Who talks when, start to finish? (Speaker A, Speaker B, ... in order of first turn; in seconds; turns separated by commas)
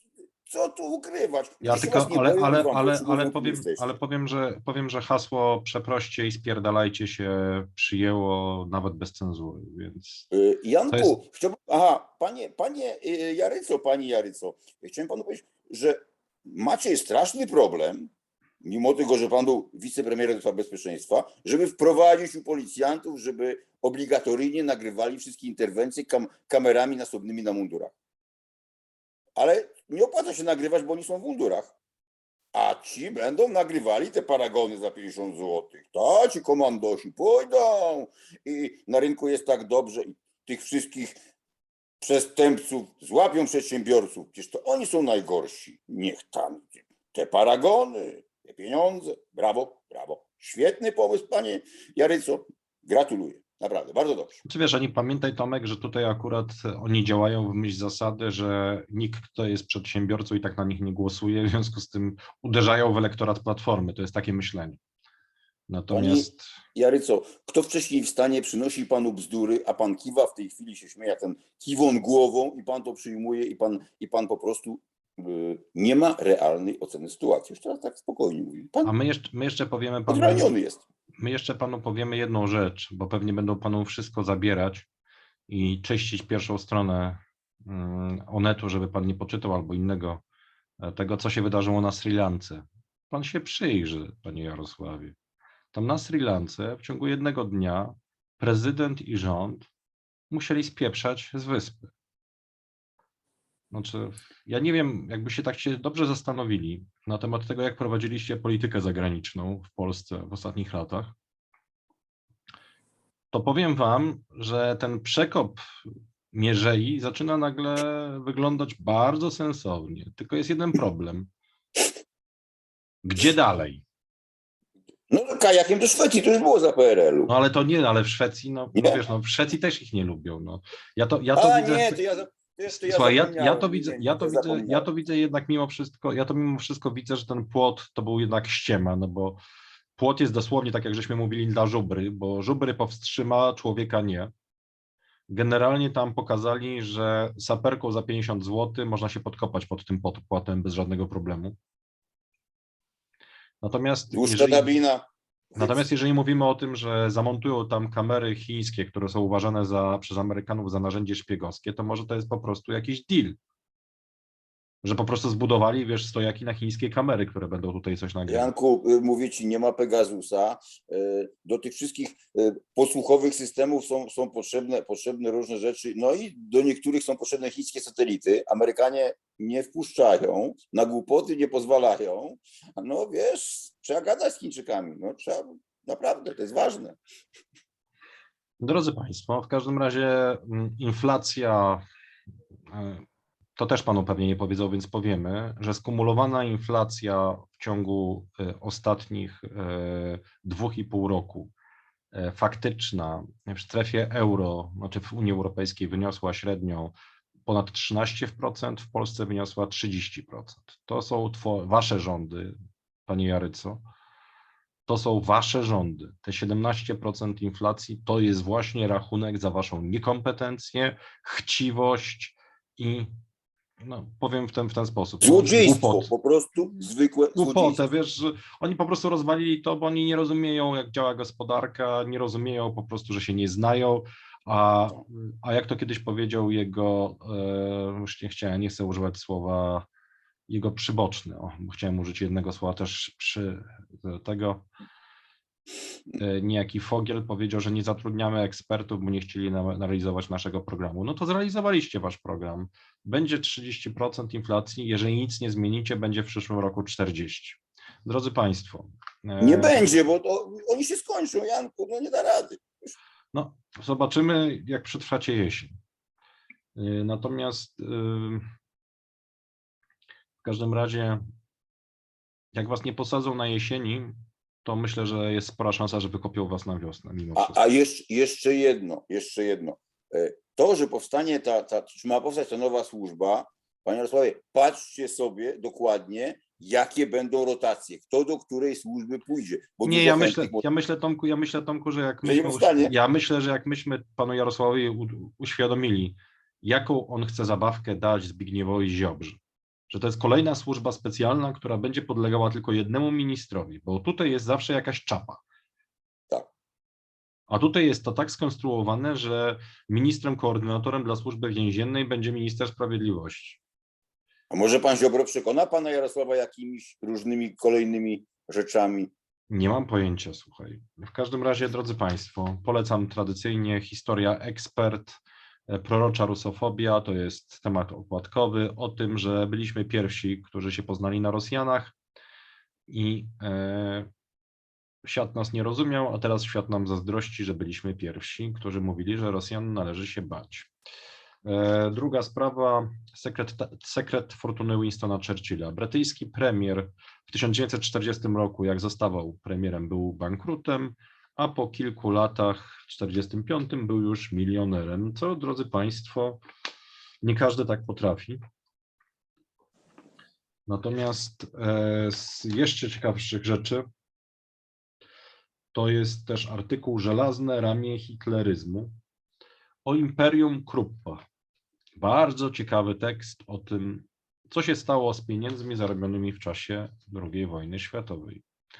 Speaker A: 0.5-4.0, Speaker B: 1.6-10.3, Speaker A: 10.3-18.1, Speaker B: 10.9-11.2, Speaker A: 18.6-27.9, Speaker A: 29.4-31.7, Speaker A: 32.5-41.2, Speaker A: 42.0-54.4, Speaker B: 54.5-64.8, Speaker B: 65.7-66.5, Speaker A: 65.9-78.9, Speaker B: 78.8-80.5, Speaker A: 80.1-80.8, Speaker B: 81.2-84.9, Speaker B: 85.5-90.2, Speaker B: 90.8-95.2, Speaker B: 95.7-99.7, Speaker B: 100.3-101.9, Speaker B: 103.7-111.1, Speaker B: 113.3-115.6, Speaker B: 116.3-121.3, Speaker B: 123.0-123.8, Speaker A: 125.1-127.3, Speaker B: 127.3-132.0, Speaker A: 128.8-129.0, Speaker A: 131.3-134.9, Speaker B: 132.7-139.4, Speaker B: 140.0-144.3, Speaker B: 145.3-151.6, Speaker B: 153.6-154.7, Speaker A: 154.1-155.8, Speaker B: 155.6-163.4, Speaker B: 164.8-168.5, Speaker A: 168.3-187.0, Speaker B: 188.6-191.8, Speaker B: 192.7-193.1, Speaker B: 193.6-201.5, Speaker B: 202.1-206.9, Speaker B: 207.5-212.5, Speaker B: 213.1-213.8, Speaker B: 214.9-223.1, Speaker B: 223.8-226.1, Speaker A: 225.2-227.8, Speaker B: 227.3-239.9, Speaker B: 240.5-244.7, Speaker B: 246.2-260.0, Speaker A: 259.4-262.9, Speaker B: 263.3-265.8, Speaker B: 266.8-268.4, Speaker B: 270.4-271.2, Speaker B: 272.5-277.6, Speaker A: 277.4-290.6, Speaker B: 289.8-305.4, Speaker A: 292.2-292.9, Speaker B: 307.5-313.6, Speaker A: 314.5-319.1, Speaker B: 319.5-332.0, Speaker B: 332.9-334.1, Speaker B: 335.0-340.7, Speaker B: 341.4-356.4, Speaker B: 357.2-358.4, Speaker B: 360.7-363.8, Speaker B: 365.7-368.9, Speaker B: 369.9-371.2, Speaker B: 372.0-378.4